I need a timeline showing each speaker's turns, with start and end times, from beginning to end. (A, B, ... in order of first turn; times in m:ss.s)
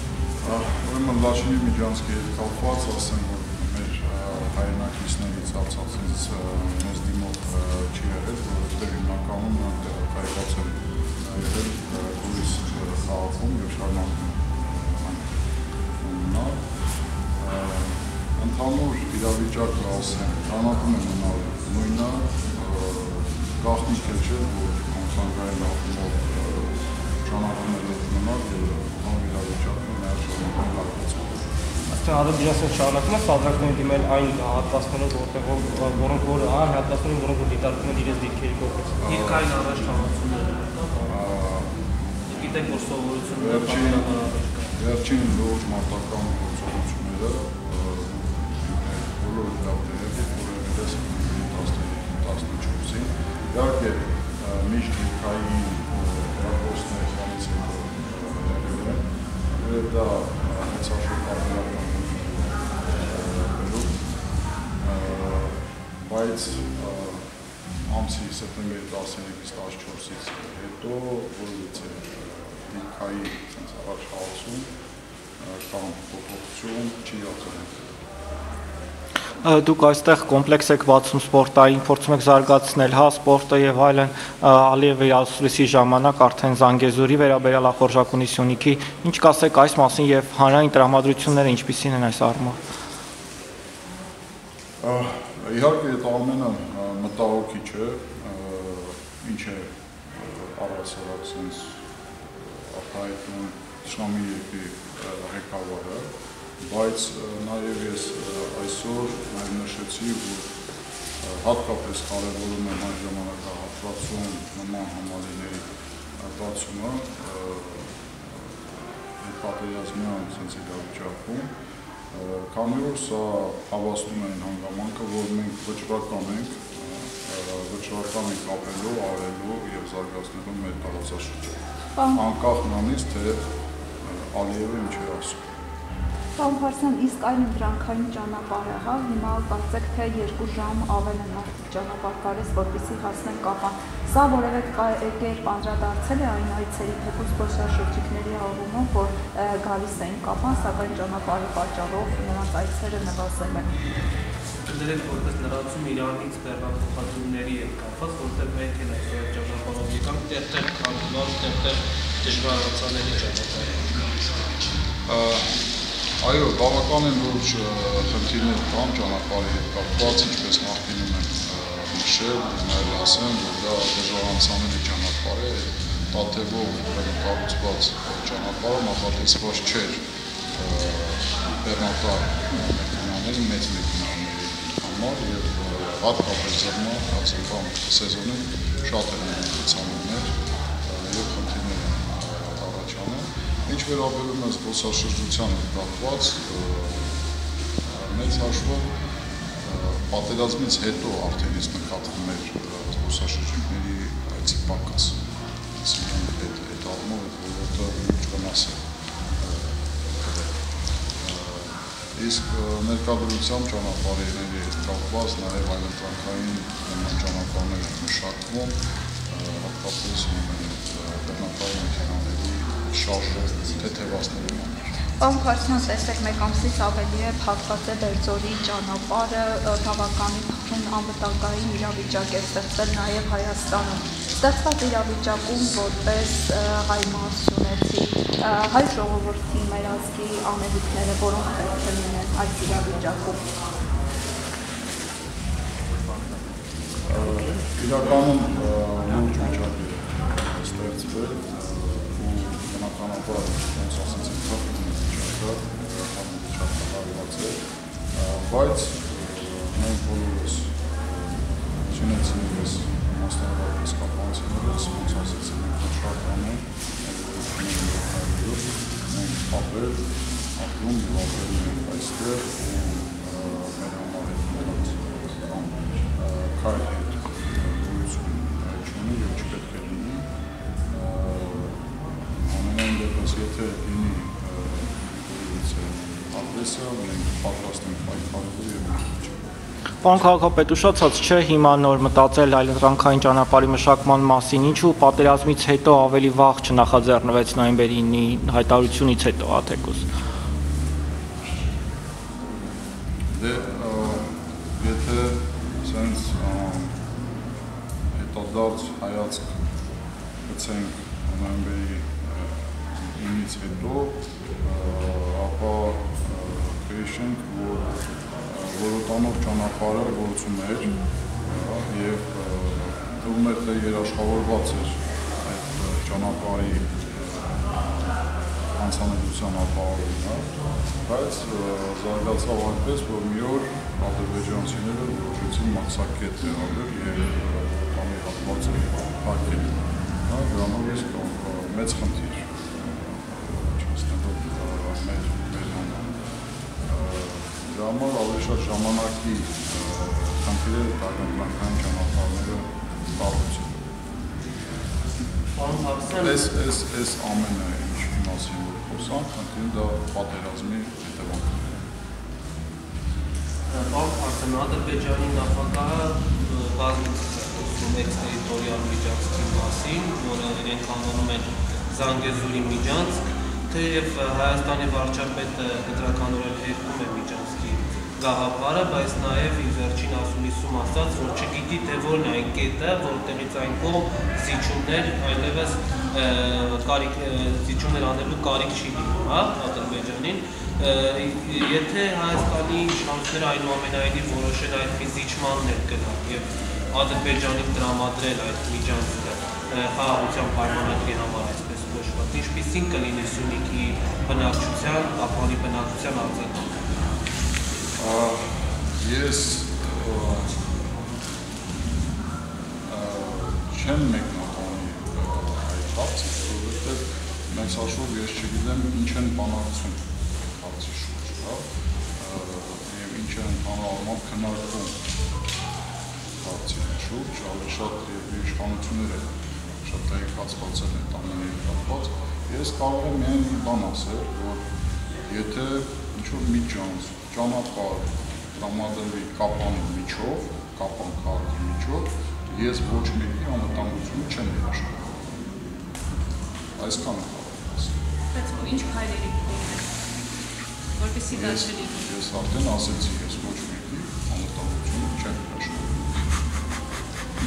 0:00.4-0:15.3 A
0:16.0-0:16.6 A
0:17.4-0:31.4 A
0:31.9-0:38.9 B
0:39.0-0:39.4 A
0:39.1-0:41.2 C
0:41.1-0:41.7 A
0:42.3-0:44.7 C
0:43.4-0:44.1 A
0:44.7-1:04.0 A
1:04.8-1:07.2 A
1:07.8-1:14.7 A
1:15.4-1:17.9 A
1:19.4-1:32.6 D
1:34.8-1:41.8 A
1:42.5-1:46.1 A
1:46.6-1:50.4 A
1:51.2-1:55.6 A
1:56.2-1:57.9 A
1:59.2-2:01.5 A
2:02.1-2:11.6 A
2:12.1-2:13.4 A
2:14.0-2:15.4 A
2:16.4-2:33.7 E
2:34.6-2:44.7 C
2:45.0-2:45.5 A
2:46.2-3:00.0 A
3:00.6-3:17.1 A
3:17.8-3:18.9 A
3:19.6-3:25.2 A
3:25.8-3:28.8 A
3:29.4-3:30.5 A
3:31.2-3:38.7 A
3:39.3-3:45.0 A
3:45.2-4:03.4 E
4:07.0-4:17.6 A
4:18.1-4:20.9 A
4:21.9-4:30.0 A
4:30.6-4:40.2 A
4:40.9-4:41.7 A
4:42.5-4:49.4 A
4:50.0-5:00.0 D
5:03.3-5:04.2 A
5:04.8-5:06.9 A
5:08.1-5:09.5 A
5:10.5-5:18.0 A
5:18.5-5:20.9 A
5:21.5-5:27.5 A
5:28.7-5:30.5 A
5:31.0-5:39.7 A
5:40.3-5:46.1 A
5:46.8-5:53.7 A
5:55.6-5:56.5 C
5:56.2-6:01.6 A
6:03.7-6:46.7 C
6:48.0-6:50.6 A
6:52.9-7:00.0 A
7:00.6-7:01.6 A
7:02.2-7:05.0 A
7:06.4-7:09.3 A
7:09.8-7:14.6 A
7:15.2-7:25.2 A
7:26.8-7:28.0 A
7:28.3-7:29.9 F
7:28.6-7:28.8 A
7:30.9-7:32.0 F
7:31.3-7:36.0 A